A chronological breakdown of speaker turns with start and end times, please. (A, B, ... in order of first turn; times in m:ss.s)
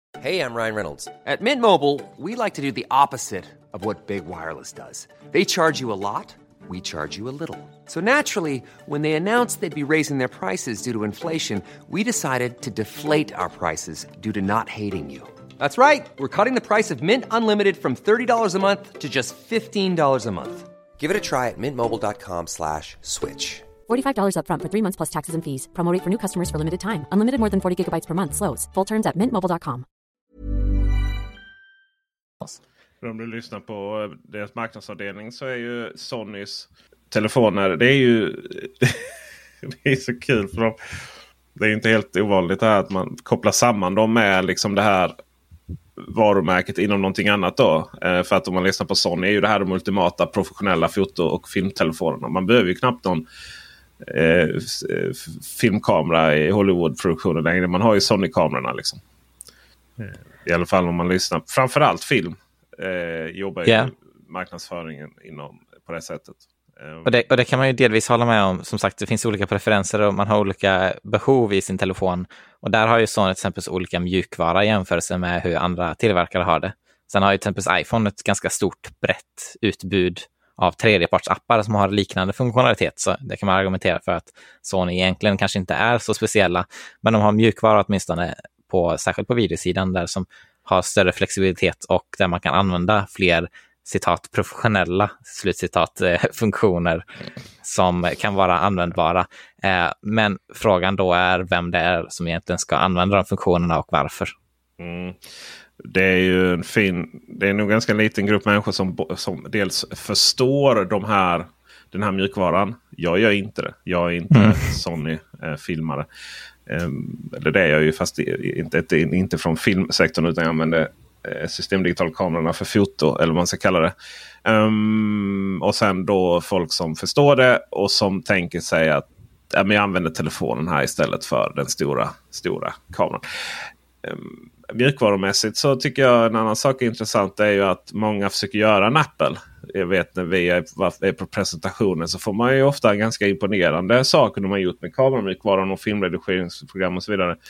0:00.2-0:23.7 A
0:23.9-0:29.8 B
0:33.0-0:39.0 C
0:39.7-0:40.8 C
0:41.6-0:45.1 C
0:46.0-0:53.2 C
0:54.0-0:59.0 C
1:00.0-1:07.1 C
1:03.6-1:03.9 D
1:07.0-1:37.0 D
1:37.6-1:44.3 D
1:44.8-1:45.2 C
1:45.8-1:56.1 C
1:54.3-1:54.7 D
1:56.7-2:03.9 C
2:04.4-2:13.2 C
2:14.0-2:27.4 C